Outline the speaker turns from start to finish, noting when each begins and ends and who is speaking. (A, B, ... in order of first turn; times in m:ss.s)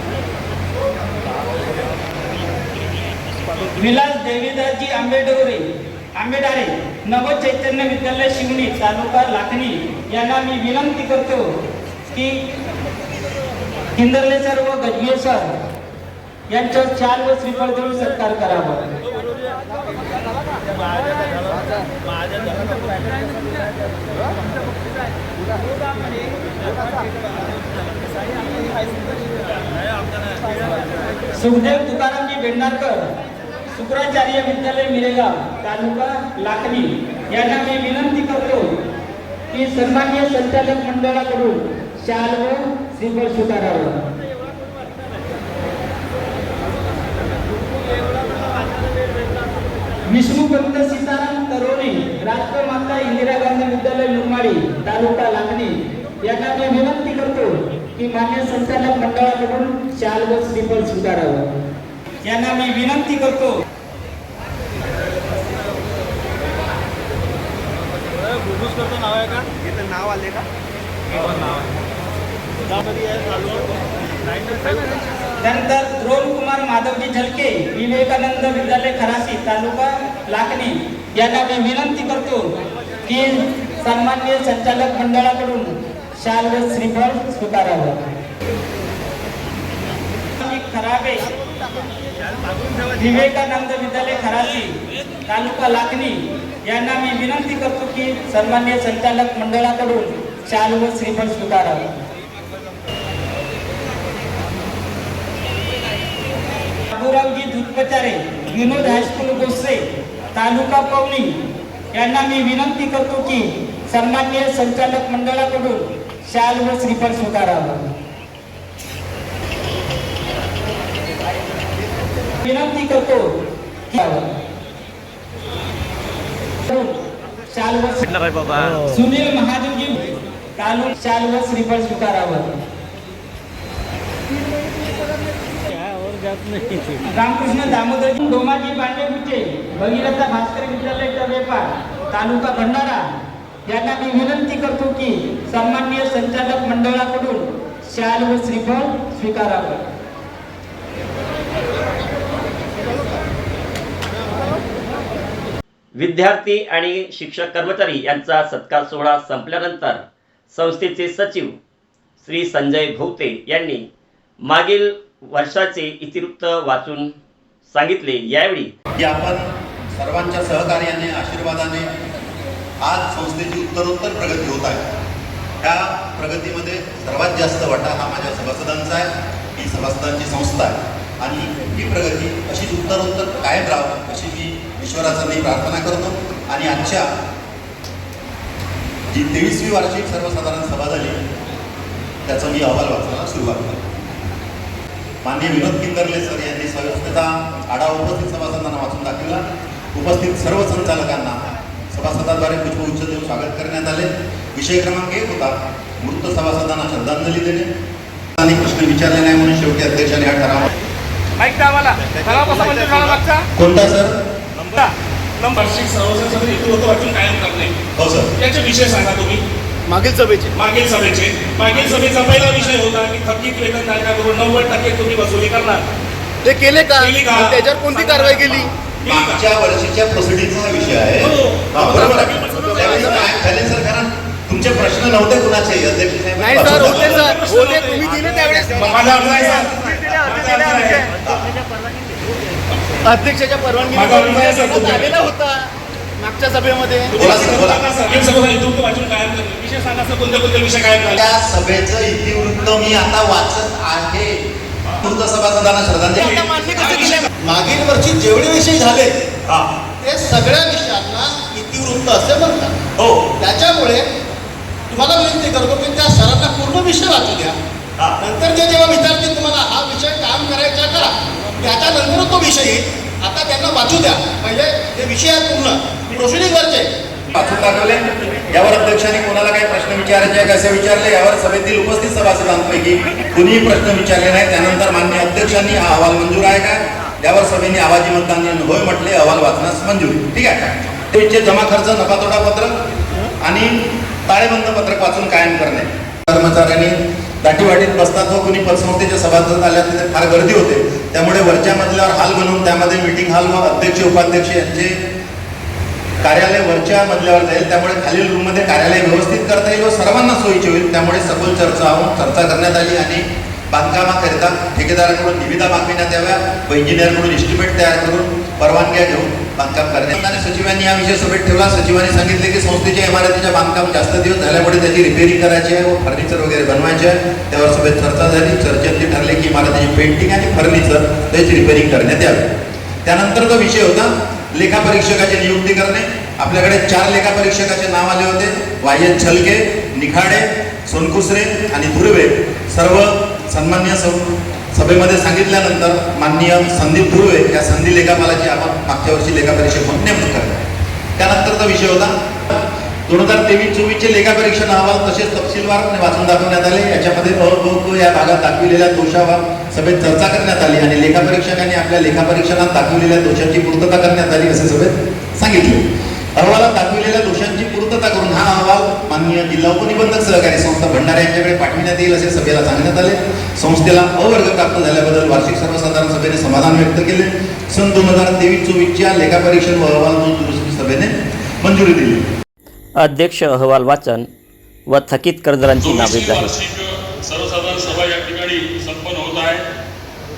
0:03.8-0:05.6 A
0:06.2-0:11.4 A
0:12.1-0:12.4 A
0:14.0-0:15.5 A
0:16.5-0:18.9 A
0:31.3-0:33.0 A
0:33.7-0:38.7 A
0:39.5-0:44.0 A
0:50.1-1:01.4 A
1:02.2-1:03.5 A
1:15.4-1:22.4 A
1:23.1-1:28.0 A
1:30.4-1:31.3 A
1:33.0-1:34.8 A
1:35.3-1:41.9 A
1:46.9-1:49.8 A
1:50.3-1:51.3 A
1:51.9-1:57.8 A
2:02.4-2:03.2 A
2:03.9-2:04.3 A
2:06.6-2:07.0 A
2:07.5-2:08.1 A
2:08.8-2:12.5 A
2:17.1-2:23.0 A
2:23.7-2:29.8 A
2:36.0-2:40.0 B
2:40.5-2:41.5 B
2:42.2-2:43.8 B
2:44.4-2:47.1 B
2:47.7-2:48.7 B
2:49.0-2:51.9 C
2:52.8-2:54.8 C
2:55.6-3:07.1 C
3:09.1-3:11.2 C
3:12.2-3:13.8 C
3:15.2-3:27.7 C
3:28.4-3:30.7 C
3:31.4-3:33.4 D
3:33.5-3:34.2 C
3:35.4-3:37.7 E
3:38.0-3:38.3 C
3:38.4-3:39.4 E
3:39.9-3:40.4 D
3:40.5-3:45.8 E
3:46.6-3:48.6 D
3:46.9-3:48.5 E
3:49.0-3:49.4 E
3:49.1-3:57.3 C
3:51.2-3:51.7 E
3:52.2-3:53.3 E
3:56.6-4:01.1 E
3:57.2-3:59.6 D
4:00.3-4:00.7 D
4:03.9-4:05.3 E
4:03.9-4:04.9 D
4:07.1-4:11.2 E
4:07.2-4:07.8 C
4:11.1-4:14.4 C
4:15.0-4:16.4 C
4:16.2-4:17.2 E
4:16.3-4:19.3 F
4:19.4-4:19.7 C
4:20.0-4:22.8 F
4:23.0-4:23.3 C
4:23.4-4:24.0 F
4:24.9-4:27.5 F
4:28.2-4:36.9 F
4:37.3-4:52.7 C
4:53.4-4:53.7 C
4:54.3-5:05.0 C
5:06.2-5:32.5 C
5:33.0-5:44.2 C
5:44.7-5:50.6 C
5:51.2-6:05.8 C
6:06.4-6:22.2 C
6:23.0-6:24.3 B
6:24.9-6:26.5 B
6:25.8-6:29.6 G